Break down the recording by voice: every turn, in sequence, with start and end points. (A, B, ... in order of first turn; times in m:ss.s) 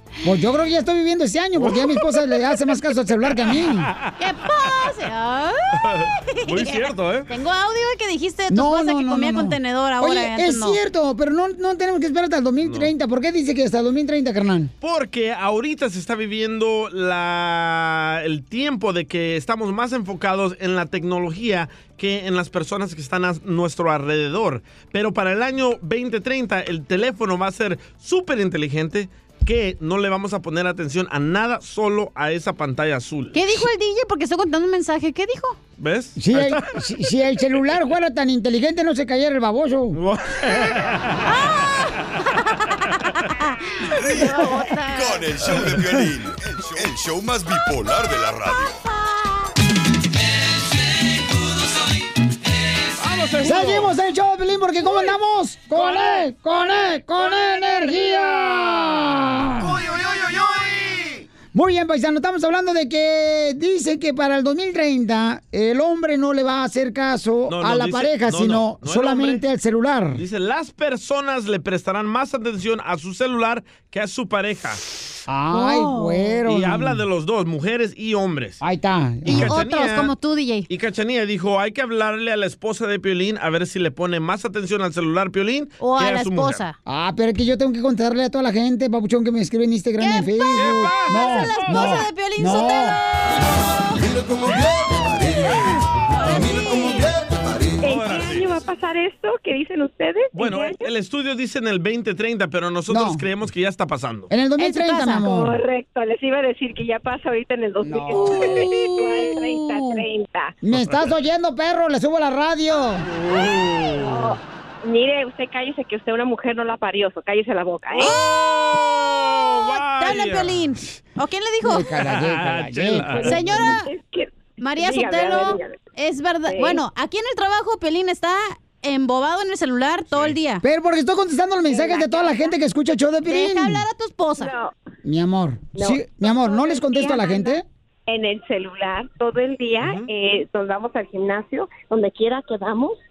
0:00.2-0:03.9 A
0:01.6-0:01.8 B
0:04.2-0:10.8 C
0:05.8-0:07.3 B
0:08.5-0:14.7 A
0:12.6-0:12.9 B
0:14.8-0:33.4 B
0:33.3-0:35.6 C
0:35.8-0:36.7 B
0:36.2-0:40.0 A
0:40.0-0:41.3 B
0:41.2-0:41.9 C
0:43.8-0:45.3 C
0:44.0-0:48.8 D
0:53.0-0:54.0 B
0:53.4-0:59.8 A
0:59.9-1:00.8 B
1:01.5-1:10.2 A
1:07.5-1:09.4 B
1:10.2-1:14.8 B
1:15.3-1:17.0 A
1:15.5-1:16.4 C
1:16.5-1:18.6 B
1:18.6-1:19.5 A
1:19.2-1:20.1 B
1:19.3-1:20.7 C
1:20.7-1:26.6 B
1:25.8-1:26.8 C
1:26.9-1:33.0 A
1:30.0-1:34.0 C
1:30.5-1:32.0 B
1:35.5-1:37.1 C
1:37.8-1:40.9 E
1:37.8-1:38.6 B
1:40.3-1:44.3 B
1:42.9-1:43.2 A
1:44.3-1:45.6 A
1:44.6-1:45.3 C
1:45.2-1:50.6 E
1:47.8-1:48.6 A
1:48.1-1:50.0 C
1:50.6-1:53.1 A
1:53.1-1:54.4 B
1:54.0-1:58.1 E
1:57.9-2:00.7 B
1:58.0-1:58.3 C
1:59.6-2:02.0 C
2:01.6-2:03.6 A
2:02.0-2:03.7 B
2:03.2-2:03.9 C
2:03.5-2:05.8 E
2:04.6-2:10.6 C
2:06.5-2:06.8 E
2:10.1-2:10.4 B
2:10.6-2:13.8 A
2:11.7-2:12.5 E
2:13.3-2:14.5 C
2:14.4-2:14.7 E
2:15.0-2:17.6 A
2:15.8-2:23.0 E
2:19.8-2:20.1 B